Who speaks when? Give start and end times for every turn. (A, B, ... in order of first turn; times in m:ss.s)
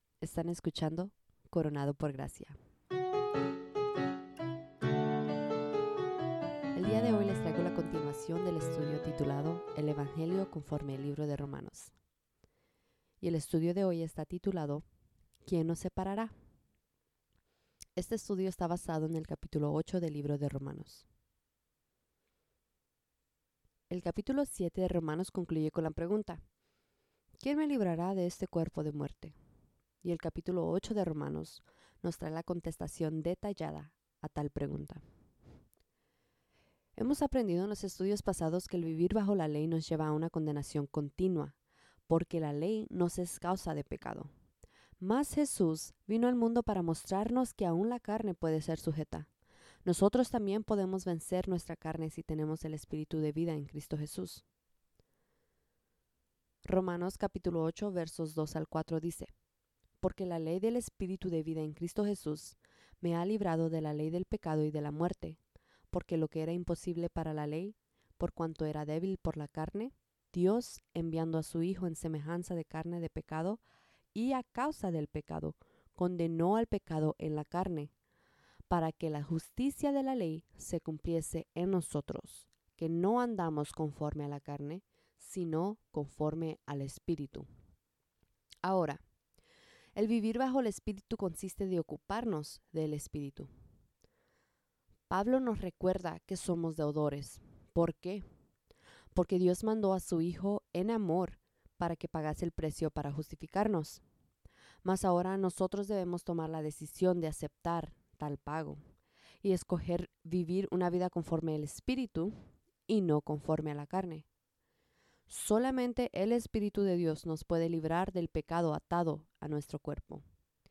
0:00.2-0:02.6 A
0:06.7-0:11.9 A
0:13.2-0:14.8 A
0:15.4-0:16.3 A
0:18.0-0:21.0 A
0:23.9-0:26.4 A
0:27.4-0:29.3 A
0:30.0-0:35.0 A
0:37.0-0:44.3 A
0:45.0-0:49.3 A
0:49.8-0:54.4 A
0:56.6-0:59.3 A
1:00.0-1:05.4 A
1:05.9-1:13.6 A
1:14.1-1:17.9 A
1:18.7-1:27.4 A
1:28.6-1:29.0 A
1:30.0-1:33.5 A
1:35.1-1:38.2 A
1:39.1-1:44.0 A
1:44.8-1:48.8 A
1:49.4-1:52.3 A
1:52.9-1:54.2 A
1:55.3-2:00.2 A